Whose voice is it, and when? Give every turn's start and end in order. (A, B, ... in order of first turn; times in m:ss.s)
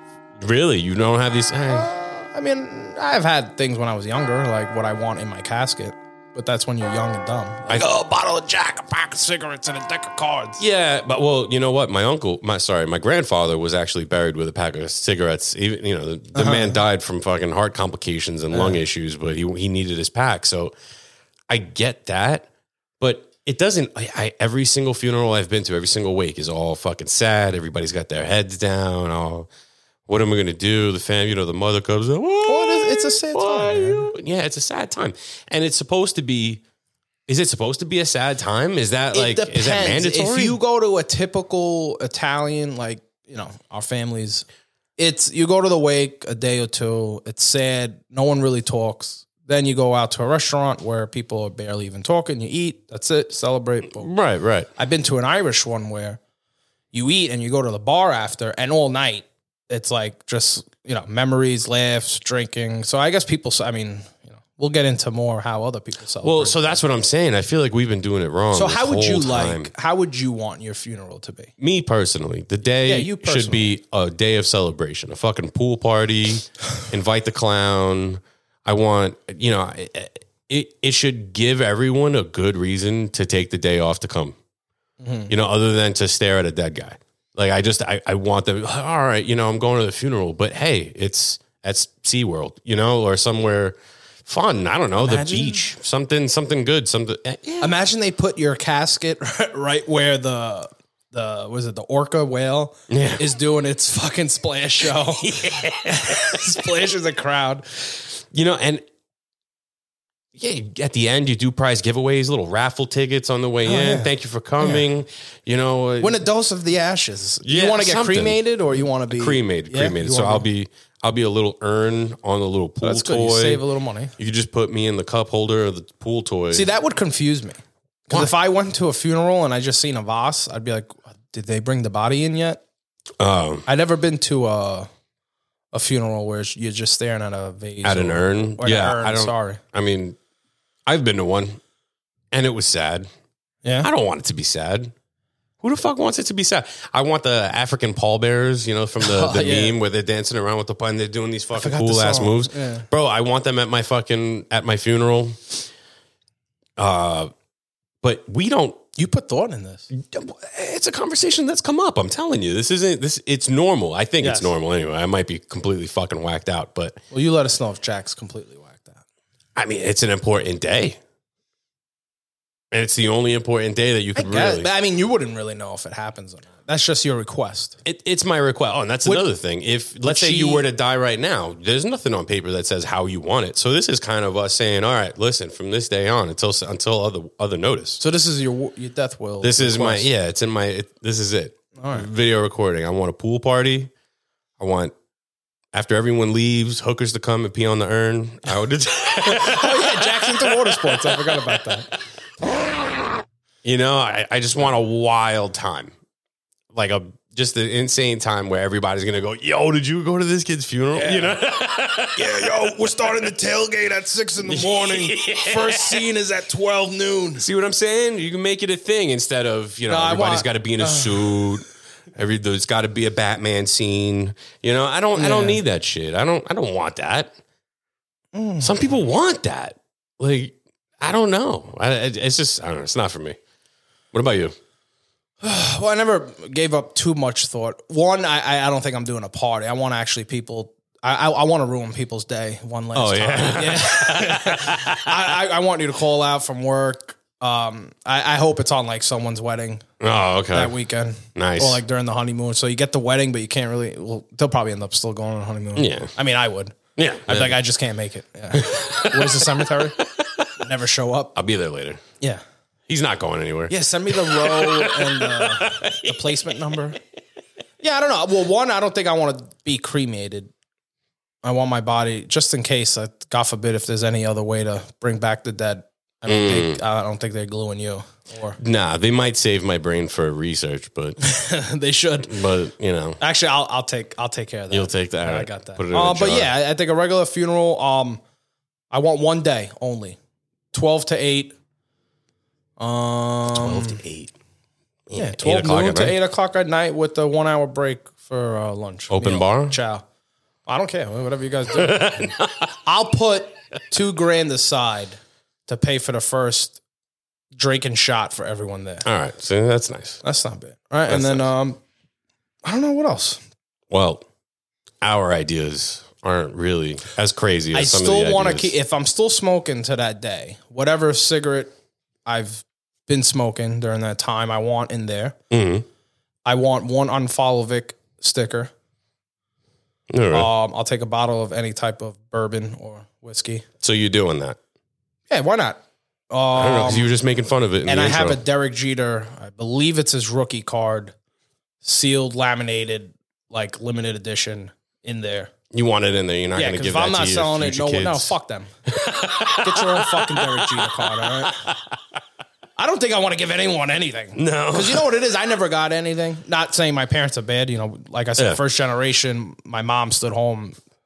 0:00.4-0:01.9 A
0:01.8-0:10.6 B
0:10.6-0:20.7 A
0:16.3-0:16.8 B
0:18.5-0:18.8 B
0:21.5-0:22.5 A
0:23.0-0:29.5 A
0:30.1-0:36.6 A
0:32.4-0:34.1 B
0:37.3-0:40.6 A
0:39.1-0:44.4 B
0:45.0-0:54.1 B
0:54.0-0:54.7 A
0:54.8-0:56.2 B
0:56.9-1:06.6 B
1:06.2-1:09.7 A
1:08.5-1:11.5 B
1:11.6-1:24.4 A
1:12.8-1:13.7 B
1:25.0-1:25.3 B
1:25.3-1:37.7 A
1:35.0-1:35.6 B
1:37.6-1:47.7 B
1:42.9-1:43.2 A
1:44.9-1:46.6 A
1:48.1-1:48.8 A
1:50.3-1:56.2 A
1:53.6-1:54.8 B
1:56.0-2:00.4 B
1:57.4-1:58.4 A
1:59.1-2:03.6 A
2:02.8-2:04.1 B
2:04.2-2:06.7 A
2:06.5-2:12.6 B
2:13.2-2:13.7 A
2:13.7-2:14.9 B
2:15.7-2:19.6 B
2:17.8-2:20.2 A
2:20.8-2:21.6 A
2:22.3-2:23.1 A
2:23.8-2:24.9 A
2:25.6-2:35.6 A
2:29.0-2:29.8 B
2:31.5-2:32.9 B
2:36.8-2:37.3 A
2:38.0-2:38.8 A
2:39.0-2:39.9 B
2:39.9-2:47.0 A
2:44.2-2:44.5 B
2:47.1-2:49.0 B
2:49.6-2:51.0 A
2:52.7-2:54.7 A
2:54.2-2:57.8 B
2:57.8-3:08.0 A
3:00.0-3:00.6 B
3:08.0-3:10.1 B
3:09.4-3:13.9 A
3:11.8-3:12.1 B
3:14.6-3:14.9 A
3:15.7-3:21.7 A
3:19.2-3:21.9 B
3:23.6-3:25.9 A
3:26.7-3:32.6 A
3:31.0-3:31.4 B
3:32.1-3:37.4 B
3:34.4-3:36.0 A
3:37.4-3:47.3 A
3:39.9-3:41.5 B
3:45.1-3:45.6 B
3:48.3-3:48.8 B
3:48.6-3:53.4 A
3:54.1-3:54.5 A
3:55.4-4:09.8 B
4:02.9-4:05.3 A
4:10.0-4:10.7 A
4:10.5-4:20.0 B
4:11.3-4:11.8 A
4:15.8-4:16.1 A
4:17.0-4:17.6 A
4:18.5-4:20.5 A
4:20.6-4:21.3 B
4:21.4-4:22.0 A
4:22.9-4:26.7 A
4:23.7-4:27.0 B
4:27.8-4:30.5 B
4:31.4-4:38.6 B
4:36.2-4:36.8 A
4:38.6-4:41.2 A
4:41.2-4:42.4 B
4:42.2-4:43.2 A
4:43.2-4:48.2 B
4:44.7-4:46.5 A
4:48.9-4:50.2 B
4:50.7-4:51.5 B
4:52.8-4:54.0 B
4:53.5-4:54.3 A
4:55.1-4:56.2 A
4:55.1-5:00.0 B
4:59.1-4:59.8 A
5:00.6-5:02.3 B
5:01.7-5:02.7 A
5:02.8-5:06.8 B
5:07.5-5:09.0 B
5:09.0-5:10.2 A
5:10.2-5:11.8 B
5:11.1-5:11.5 A
5:12.6-5:13.4 B
5:13.9-5:14.2 A
5:15.0-5:18.7 A
5:17.7-5:21.7 B
5:22.2-5:25.4 B
5:25.5-5:25.8 A
5:26.4-5:28.7 B
5:30.1-5:30.5 A
5:30.3-5:33.6 B
5:33.8-5:34.6 A
5:35.3-5:35.8 B
5:36.3-5:37.1 B
5:36.6-5:38.4 A
5:37.8-5:41.1 B
5:41.8-5:45.5 B
5:45.7-5:48.3 A
5:46.5-5:48.7 B
5:48.9-5:52.0 A
5:49.5-5:51.7 B
5:52.8-6:00.8 B
5:54.4-5:55.0 A